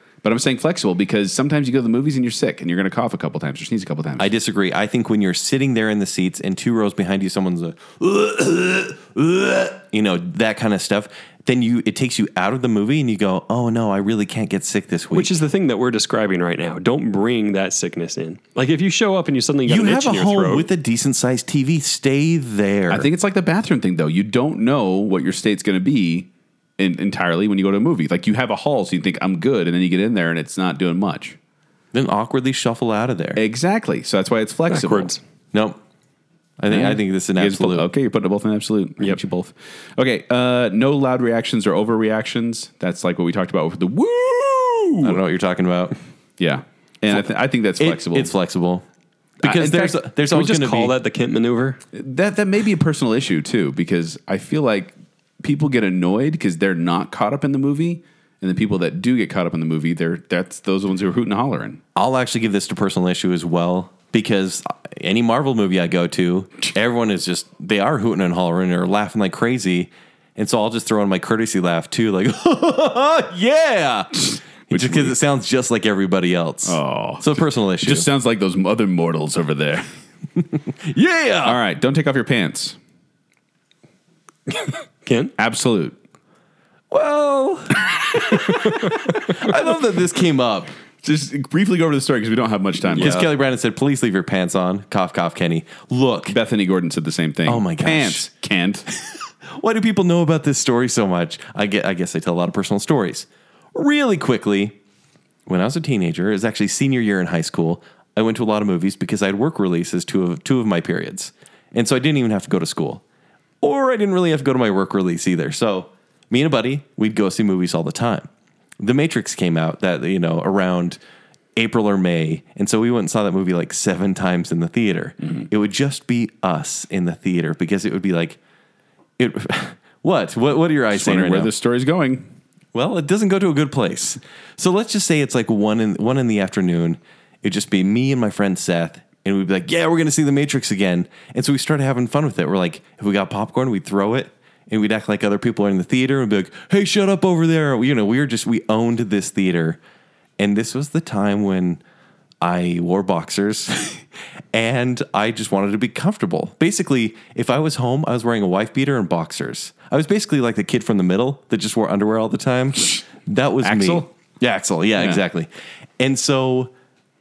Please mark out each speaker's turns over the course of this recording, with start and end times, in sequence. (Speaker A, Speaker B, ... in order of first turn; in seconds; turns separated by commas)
Speaker A: 0.2-4.3, Speaker B: 4.2-15.3, Speaker C: 15.1-20.7, Speaker B: 19.7-23.1, Speaker A: 22.9-31.4, Speaker B: 31.9-33.4, Speaker A: 33.4-35.1, Speaker C: 34.7-35.2, Speaker B: 35.5-35.8, Speaker B: 36.6-37.9, Speaker A: 36.7-45.2, Speaker B: 45.0-45.9, Speaker A: 46.4-48.3, Speaker B: 47.8-48.8, Speaker B: 49.4-50.9, Speaker A: 49.4-50.0, Speaker C: 50.2-51.8, Speaker A: 51.9-61.8, Speaker B: 62.0-78.1, Speaker A: 74.7-75.1, Speaker A: 76.6-79.9, Speaker B: 80.7-81.6, Speaker A: 81.4-82.8, Speaker C: 84.5-85.3, Speaker A: 85.4-86.0, Speaker B: 86.9-90.7, Speaker A: 91.0-93.3, Speaker B: 92.9-96.4, Speaker A: 96.3-98.8, Speaker B: 97.5-98.3, Speaker B: 99.4-104.8, Speaker B: 105.5-113.0, Speaker B: 113.6-118.3, Speaker B: 118.8-121.0, Speaker B: 121.5-128.4, Speaker B: 129.2-131.5, Speaker A: 130.9-132.3, Speaker B: 132.7-149.8, Speaker B: 150.4-151.8, Speaker B: 152.4-165.5, Speaker A: 163.6-164.1, Speaker A: 164.9-165.2, Speaker B: 166.0-166.7